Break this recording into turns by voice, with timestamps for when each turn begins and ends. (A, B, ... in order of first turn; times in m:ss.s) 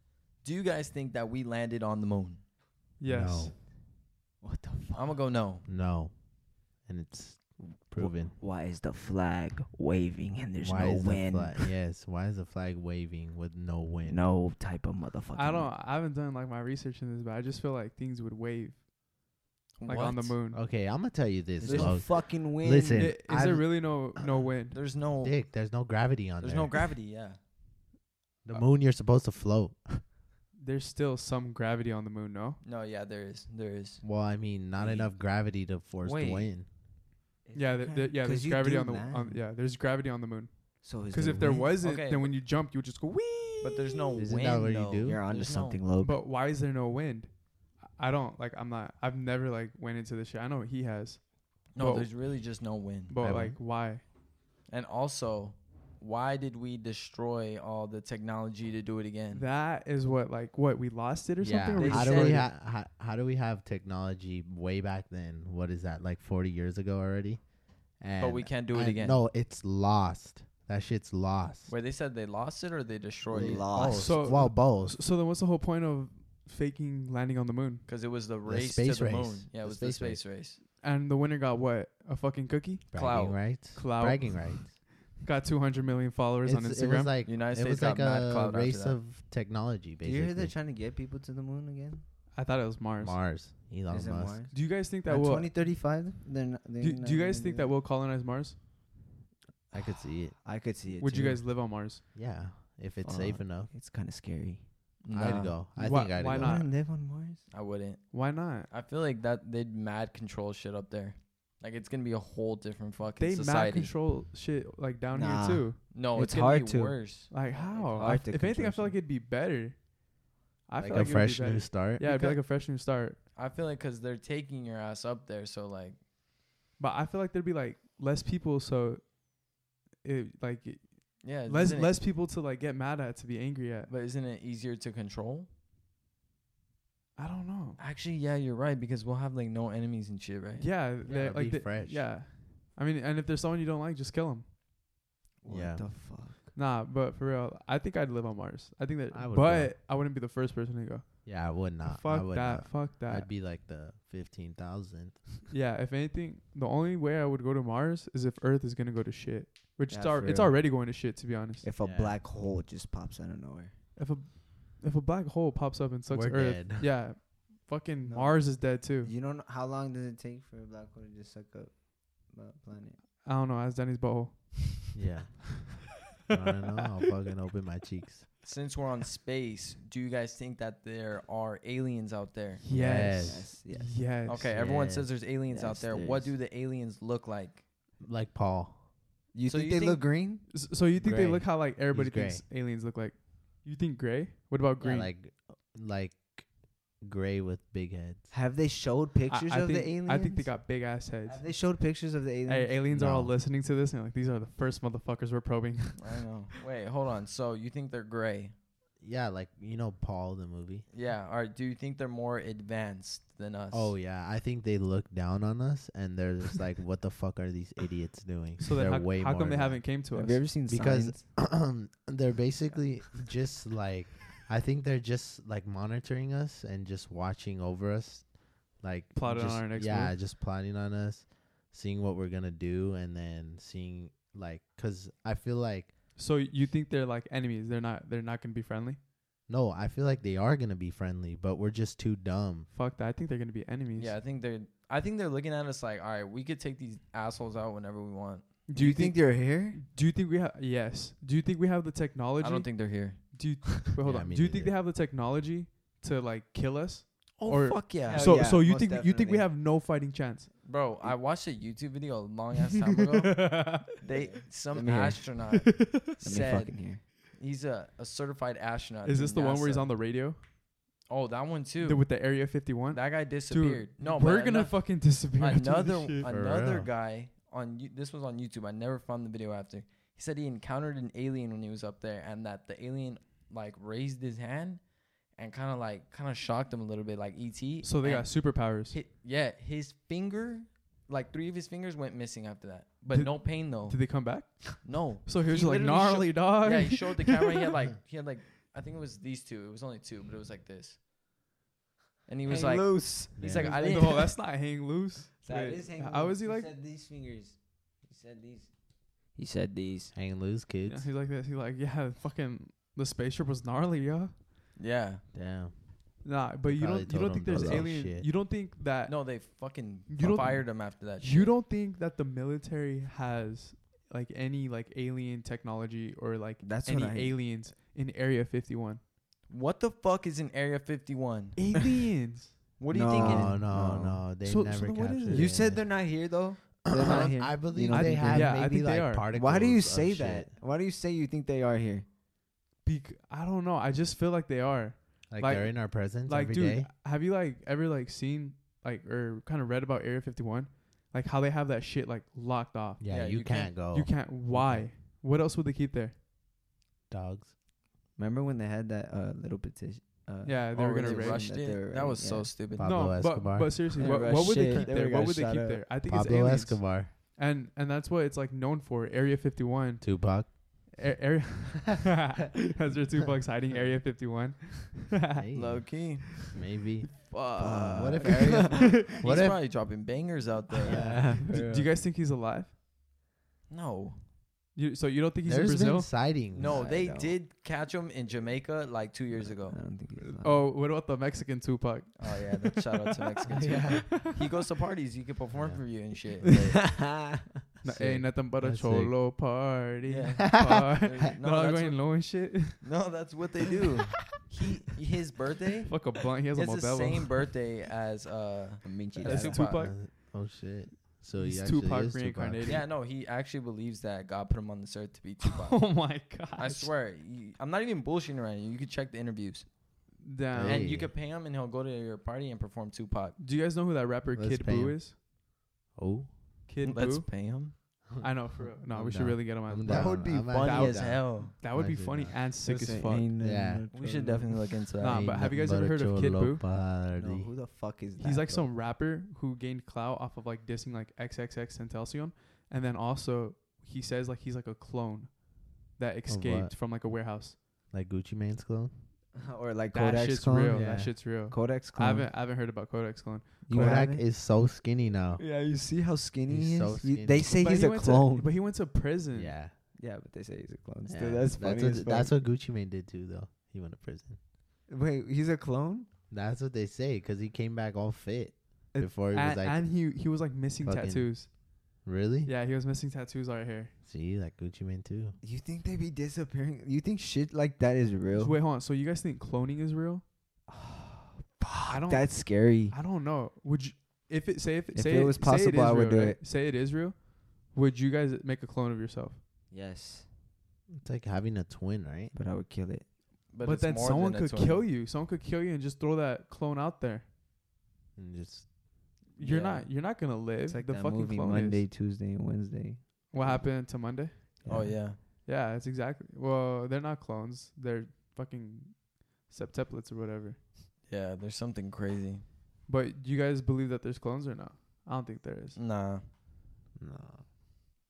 0:00.4-0:02.4 A
0:03.0-0:03.5 B
0:03.0-0:03.6 C
0:04.4-0:05.1 D
0:05.0-0:05.6 A
0:05.6-0:08.4 C
0:08.0-0:11.7 D
0:10.6-0:14.3 C
0:14.0-0:15.7 D
0:15.3-0:18.9 B
0:19.8-0:20.4 A
0:19.8-0:20.6 B
0:20.5-0:23.4 C
0:21.6-0:23.7 D
0:22.9-0:24.8 B
0:24.2-0:24.4 C
0:24.7-0:25.4 A
0:25.1-0:26.8 C
0:26.4-0:27.4 A
0:28.4-0:30.0 C
0:30.6-0:32.6 B
0:32.6-0:34.1 A
0:34.0-0:36.7 C
0:34.8-0:35.1 A
0:36.0-0:36.5 A
0:37.4-0:39.4 D
0:37.6-0:44.0 B
0:40.8-0:41.7 D
0:41.8-0:42.3 A
0:43.6-0:45.8 A
0:44.1-0:45.2 C
0:45.0-0:46.2 D
0:46.0-0:52.2 B
0:51.7-0:53.2 A
0:53.1-0:54.0 B
0:53.2-0:53.6 C
0:54.7-0:59.4 A
0:59.3-1:02.5 B
1:01.4-1:11.7 C
1:01.8-1:02.5 A
1:08.2-1:09.2 A
1:11.7-1:14.0 A
1:13.3-1:15.0 C
1:13.3-1:14.2 D
1:13.9-1:17.9 B
1:17.9-1:20.6 A
1:18.4-1:20.2 C
1:20.8-1:22.8 B
1:22.9-1:24.8 C
1:22.9-1:23.5 A
1:23.7-1:27.1 B
1:26.4-1:30.5 C
1:27.2-1:29.0 A
1:30.0-1:32.0 D
1:32.3-1:33.2 B
1:33.0-1:34.4 C
1:33.9-1:37.8 D
1:34.5-1:35.5 B
1:36.8-1:38.6 B
1:39.7-1:40.4 C
1:39.8-1:41.4 D
1:41.0-1:42.0 B
1:42.1-1:43.7 C
1:43.0-1:45.5 D
1:45.0-1:45.6 A
1:45.1-1:46.6 C
1:45.7-1:46.7 B
1:46.3-1:47.4 D
1:47.5-1:53.9 A
1:48.1-1:48.7 B
1:53.2-1:55.8 B
1:55.1-1:57.1 D
1:55.9-1:58.1 A
1:57.3-2:00.0 B
1:58.0-1:59.0 D
2:00.7-2:03.2 B
2:00.8-2:02.0 C
2:02.0-2:02.4 A
2:03.3-2:06.0 A
2:06.8-2:09.2 B
2:10.0-2:13.9 B
2:11.2-2:12.0 A
2:13.9-2:15.5 A
2:17.2-2:17.8 B
2:17.8-2:21.2 A
2:20.6-2:24.4 B
2:21.1-2:22.1 C
2:25.4-2:26.5 D
2:25.5-2:25.9 C
2:26.5-2:33.3 B
2:29.1-2:29.7 C
2:31.2-2:35.4 C
2:35.5-2:41.7 B
2:39.9-2:40.6 D
2:41.6-2:43.7 D
2:41.8-2:42.2 C
2:44.0-2:49.1 B
2:46.1-2:46.9 C
2:48.0-2:53.0 D
2:53.2-2:54.8 B
2:54.9-2:58.3 C
2:58.4-3:02.6 A
3:02.6-3:04.5 B
3:02.7-3:03.6 C
3:03.2-3:04.0 D
3:04.2-3:07.7 A
3:04.5-3:05.1 C
3:05.4-3:06.4 D
3:08.0-3:08.9 C
3:09.3-3:10.5 D
3:09.5-3:10.1 A
3:10.5-3:15.1 B
3:11.0-3:12.4 C
3:14.8-3:18.3 C
3:18.3-3:20.7 D
3:19.3-3:21.4 B
3:21.2-3:22.8 D
3:22.5-3:26.2 B
3:22.9-3:23.3 C
3:26.0-3:28.5 A
3:29.0-3:30.8 C
3:30.9-3:33.9 A
3:33.7-3:39.9 C
3:38.6-3:40.5 B
3:40.1-3:41.2 D
3:40.7-3:55.9 C
3:49.2-3:50.2 B
3:56.2-3:59.0 B
3:59.5-4:02.7 C
4:02.7-4:04.2 B
4:04.0-4:08.5 A
4:08.7-4:20.5 B
4:08.8-4:09.8 D
4:12.4-4:13.2 A
4:14.0-4:14.7 C
4:17.4-4:18.5 A
4:18.0-4:19.5 D
4:20.6-4:29.9 A
4:23.2-4:23.9 B
4:24.0-4:25.4 D
4:25.7-4:26.0 B
4:26.2-4:27.0 D
4:29.0-4:30.4 B
4:31.1-4:32.1 A
4:31.8-4:36.3 B
4:32.9-4:54.3 A
4:36.2-4:36.9 C
4:47.8-4:49.0 B
4:53.1-4:57.5 B
4:54.8-5:01.0 A
5:02.3-5:04.4 A
5:02.4-5:04.0 D
5:03.4-5:03.8 C
5:03.8-5:06.7 B
5:05.4-5:10.1 D
5:10.1-5:11.0 C
5:10.8-5:14.4 B
5:14.8-5:15.2 A
5:15.3-5:18.3 C
5:16.2-5:19.4 B
5:17.5-5:17.8 D
5:19.0-5:21.6 A
5:20.1-5:29.0 B
5:26.6-5:27.4 D
5:29.5-5:31.9 A
5:31.6-5:32.5 B
5:32.8-5:33.6 A
5:32.9-5:34.2 D
5:33.1-5:40.6 C
5:34.4-5:35.6 B
5:35.3-5:38.6 D
5:37.0-5:37.3 A
5:37.9-5:39.2 B
5:39.3-5:42.0 D
5:42.8-5:53.0 B
5:45.3-5:46.9 C
5:53.0-5:54.9 C
5:53.1-5:53.7 A
5:53.9-5:56.1 B
5:57.1-5:57.5 C
5:58.2-6:02.5 D
6:00.4-6:01.4 B
6:00.7-6:02.9 A
6:02.7-6:04.8 C
6:02.8-6:15.4 B
6:04.0-6:06.4 D
6:06.0-6:07.1 C
6:10.0-6:10.6 C
6:15.3-6:19.6 C
6:15.5-6:16.5 A
6:17.3-6:21.3 A
6:17.6-6:18.9 D
6:18.7-6:19.0 B
6:20.8-6:21.4 C
6:20.8-6:21.9 D
6:21.4-6:22.7 B
6:23.7-6:24.2 A
6:24.7-6:26.1 B
6:25.4-6:26.9 C
6:26.5-6:29.8 A
6:26.6-6:27.4 D
6:29.4-6:30.6 D
6:30.4-6:32.4 B
6:32.2-6:36.9 A
6:33.5-6:34.3 C
6:35.5-6:35.8 C
6:36.6-6:37.5 D
6:37.8-6:42.9 B
6:37.8-6:39.2 C
6:40.0-6:42.1 A
6:40.6-6:41.0 C
6:42.8-6:49.9 A
6:45.9-6:47.3 B
6:48.8-6:49.6 D
6:49.2-6:50.2 B
6:49.6-6:52.8 C
6:51.1-6:52.8 B
6:52.6-6:56.0 A
6:55.6-6:56.9 B
6:56.6-6:59.8 A
7:00.2-7:00.9 B
7:00.5-7:01.1 C
7:00.6-7:03.4 A
7:03.4-7:05.2 B
7:04.3-7:05.2 C
7:05.9-7:06.4 C
7:06.7-7:07.3 B
7:06.8-7:07.8 A
7:08.1-7:12.4 C
7:08.2-7:13.3 B
7:09.8-7:11.5 A
7:12.6-7:14.7 D
7:13.4-7:13.8 C
7:13.9-7:15.3 A
7:15.0-7:16.6 B
7:15.0-7:17.5 C
7:17.1-7:18.7 D
7:18.2-7:27.6 B
7:26.3-7:26.7 C
7:27.9-7:28.9 C
7:29.4-7:32.3 D
7:29.9-7:34.0 B
7:30.7-7:31.1 C
7:33.6-7:34.2 D
7:33.7-7:35.4 C
7:35.4-7:38.5 D
7:36.5-7:37.5 C
7:37.6-7:39.5 B
7:39.3-7:39.7 C
7:40.0-7:42.3 D
7:41.0-7:44.4 C
7:44.9-7:46.1 D
7:46.3-7:49.9 C
7:48.9-7:51.5 B
7:50.8-7:52.5 C
7:52.4-7:53.9 B
7:54.0-7:55.4 C
7:55.4-7:58.6 D
7:58.3-8:00.2 B
8:00.7-8:02.9 D
8:01.9-8:09.4 B
8:04.9-8:06.4 D
8:09.7-8:10.3 D
8:10.9-8:12.4 C
8:12.3-8:13.0 D
8:13.5-8:14.8 A
8:13.6-8:17.2 B
8:18.2-8:18.8 C
8:19.4-8:21.8 B
8:19.4-8:19.9 A
8:20.7-8:23.4 D
8:23.3-8:24.6 B
8:24.6-8:25.0 D
8:24.7-8:25.2 A
8:25.2-8:30.6 B
8:31.1-8:32.4 A
8:32.9-8:35.8 B
8:35.8-8:36.2 A
8:37.0-8:37.4 C